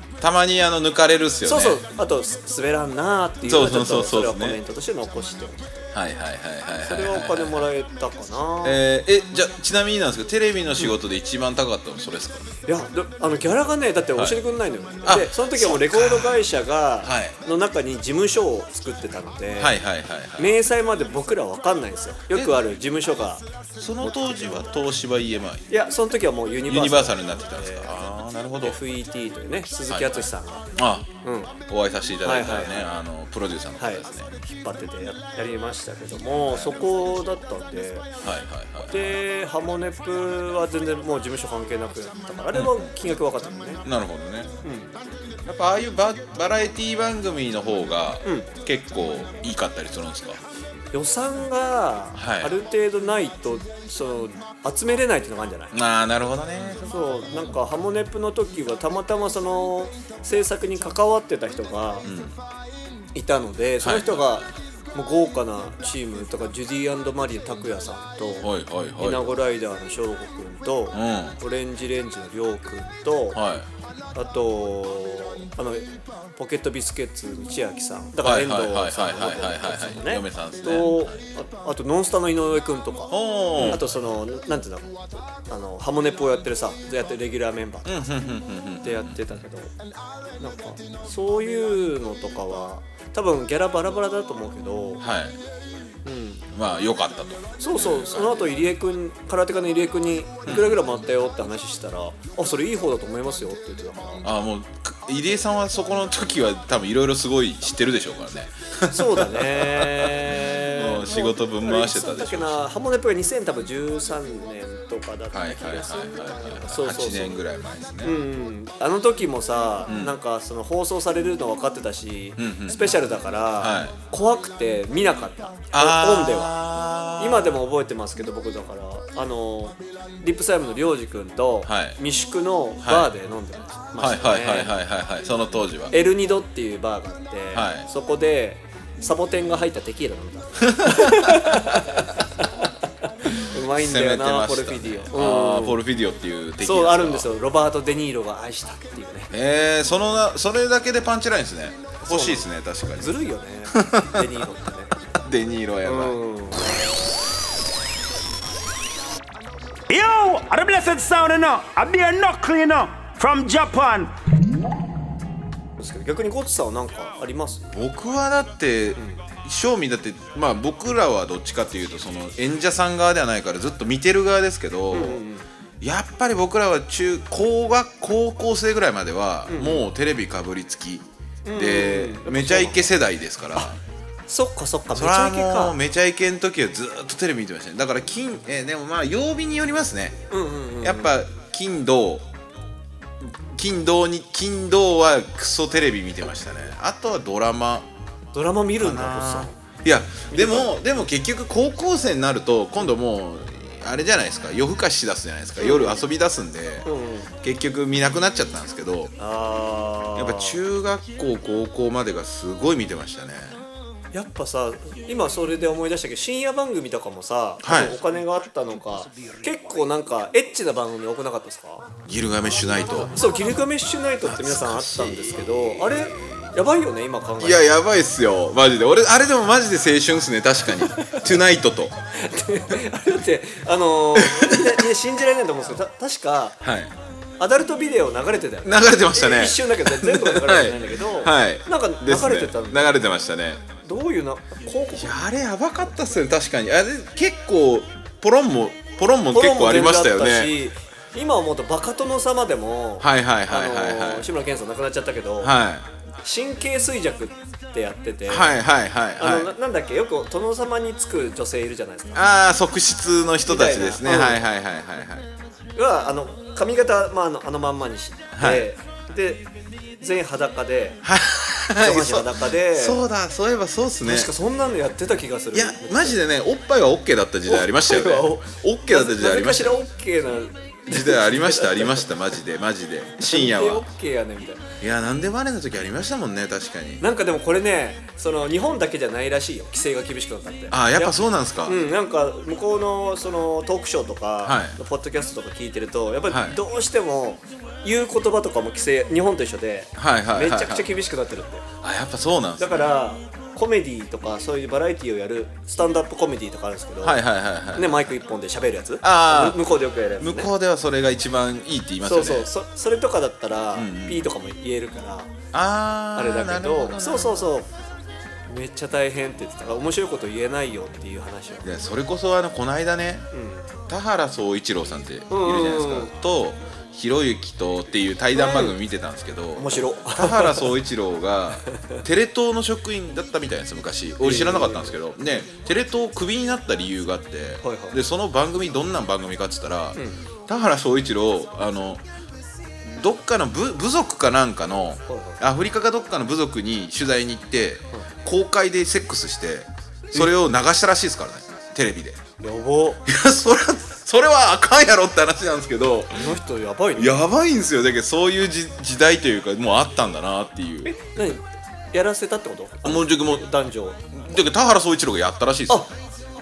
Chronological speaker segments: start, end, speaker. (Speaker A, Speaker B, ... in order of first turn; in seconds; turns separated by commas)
Speaker A: 0.2-1.8, Speaker B: 1.4-5.8, Speaker A: 3.4-4.6, Speaker A: 5.9-7.7, Speaker B: 6.8-8.8, Speaker A: 8.6-12.4, Speaker B: 12.7-19.8, Speaker A: 14.2-14.4, Speaker A: 15.0-17.4, Speaker A: 19.6-20.6, Speaker B: 20.4-23.4, Speaker A: 23.8-25.7, Speaker B: 24.0-24.7, Speaker B: 25.7-27.9, Speaker A: 26.7-28.8, Speaker B: 28.6-30.6, Speaker A: 29.9-31.1, Speaker B: 31.2-31.5, Speaker A: 31.7-34.3, Speaker B: 32.2-32.9, Speaker B: 33.8-38.1, Speaker A: 36.5-36.9, Speaker A: 38.2-39.2, Speaker B: 38.9-43.8, Speaker A: 42.5-42.9, Speaker A: 43.8-44.5, Speaker B: 44.6-44.9, Speaker A: 45.4-50.4, Speaker B: 48.2-48.5, Speaker B: 50.9-55.7, Speaker A: 52.1-52.5, Speaker A: 55.7-57.5, Speaker B: 56.8-62.1, Speaker A: 62.0-62.4, Speaker B: 63.1-73.4, Speaker A: 63.8-64.5, Speaker A: 68.4-69.2, Speaker A: 70.9-71.4, Speaker A: 73.3-73.7, Speaker B: 74.1-88.0, Speaker A: 78.2-81.2, Speaker A: 83.1-83.8, Speaker A: 87.8-89.2, Speaker B: 88.8-89.7, Speaker B: 90.4-95.0, Speaker A: 95.0-95.4, Speaker B: 96.0-96.5, Speaker A: 96.5-98.6, Speaker B: 97.6-104.3, Speaker A: 100.5-100.8, Speaker A: 104.2-112.7, Speaker B: 108.9-117.4, Speaker A: 115.3-118.2, Speaker B: 118.0-126.5, Speaker A: 119.9-120.2, Speaker A: 122.4-124.0, Speaker A: 125.7-127.6, Speaker B: 127.2-134.8, Speaker A: 131.7-132.0, Speaker A: 132.8-133.1, Speaker A: 134.0-135.9, Speaker B: 135.9-142.4, Speaker A: 137.5-137.9, Speaker A: 140.7-141.8, Speaker B: 143.2-145.8, Speaker A: 143.4-147.3, Speaker B: 146.6-149.3, Speaker A: 149.3-153.2, Speaker B: 152.0-154.9, Speaker A: 153.7-154.3, Speaker A: 155.2-156.2, Speaker B: 155.8-156.8, Speaker C: 159.9-164.1, Speaker B: 165.8-167.7, Speaker A: 167.7-175.2, Speaker B: 169.0-169.2, Speaker B: 174.9-175.4, Speaker A: 175.8-183.8, Speaker B: 179.5-179.8, Speaker B: 181.4-182.9, Speaker B: 184.3-185.8, Speaker A: 184.9-190.2, Speaker B: 190.3-191.2, Speaker A: 190.8-192.2, Speaker A: 193.2-197.9, Speaker B: 198.3-199.6, Speaker A: 198.8-206.9, Speaker B: 200.3-200.7, Speaker B: 205.6-206.1, Speaker B: 206.8-207.3, Speaker A: 207.4-209.1, Speaker B: 209.2-210.6, Speaker A: 210.2-213.6, Speaker B: 214.1-221.9, Speaker A: 217.6-218.0, Speaker A: 222.1-223.2, Speaker B: 223.1-227.7, Speaker A: 224.2-226.5, Speaker A: 227.4-231.9, Speaker B: 230.7-231.3, Speaker B: 232.2-236.6, Speaker A: 234.1-234.8, Speaker A: 236.6-236.9, Speaker B: 237.4-243.0, Speaker A: 238.6-243.6, Speaker B: 243.8-245.1, Speaker A: 244.9-250.5, Speaker B: 249.3-255.5, Speaker A: 253.0-254.3, Speaker A: 255.4-255.9, Speaker B: 256.2-258.6, Speaker A: 258.3-259.5, Speaker B: 259.2-262.2, Speaker A: 262.1-265.2, Speaker B: 263.4-264.4, Speaker B: 265.7-269.5, Speaker A: 268.3-268.7, Speaker B: 270.0-271.0, Speaker A: 271.0-274.3, Speaker B: 271.8-273.0, Speaker B: 274.0-276.2, Speaker A: 275.5-279.8, Speaker B: 277.5-282.1, Speaker A: 280.9-283.9, Speaker B: 283.2-284.6, Speaker A: 284.8-287.0, Speaker B: 287.0-301.6, Speaker A: 290.7-291.8, Speaker A: 294.4-294.8, Speaker A: 296.3-296.6, Speaker A: 299.9-300.9, Speaker A: 301.8-303.0, Speaker B: 302.6-307.2, Speaker A: 307.0-308.1, Speaker B: 307.7-310.5, Speaker A: 309.0-309.7, Speaker A: 310.2-312.5, Speaker B: 312.0-315.3, Speaker A: 313.7-314.2, Speaker A: 315.5-317.5, Speaker B: 316.1-317.7, Speaker B: 318.5-321.7, Speaker A: 321.6-323.3, Speaker B: 323.3-323.7, Speaker A: 323.9-342.0, Speaker B: 325.3-326.1, Speaker B: 328.3-328.8, Speaker B: 329.6-330.7, Speaker B: 334.2-334.9, Speaker B: 337.6-338.0, Speaker B: 339.9-340.2, Speaker A: 342.9-352.2, Speaker B: 345.1-345.4, Speaker B: 352.4-353.0, Speaker A: 353.1-356.3, Speaker B: 356.1-357.1, Speaker A: 356.9-361.0, Speaker B: 360.9-364.0, Speaker A: 362.8-363.5, Speaker A: 364.1-365.9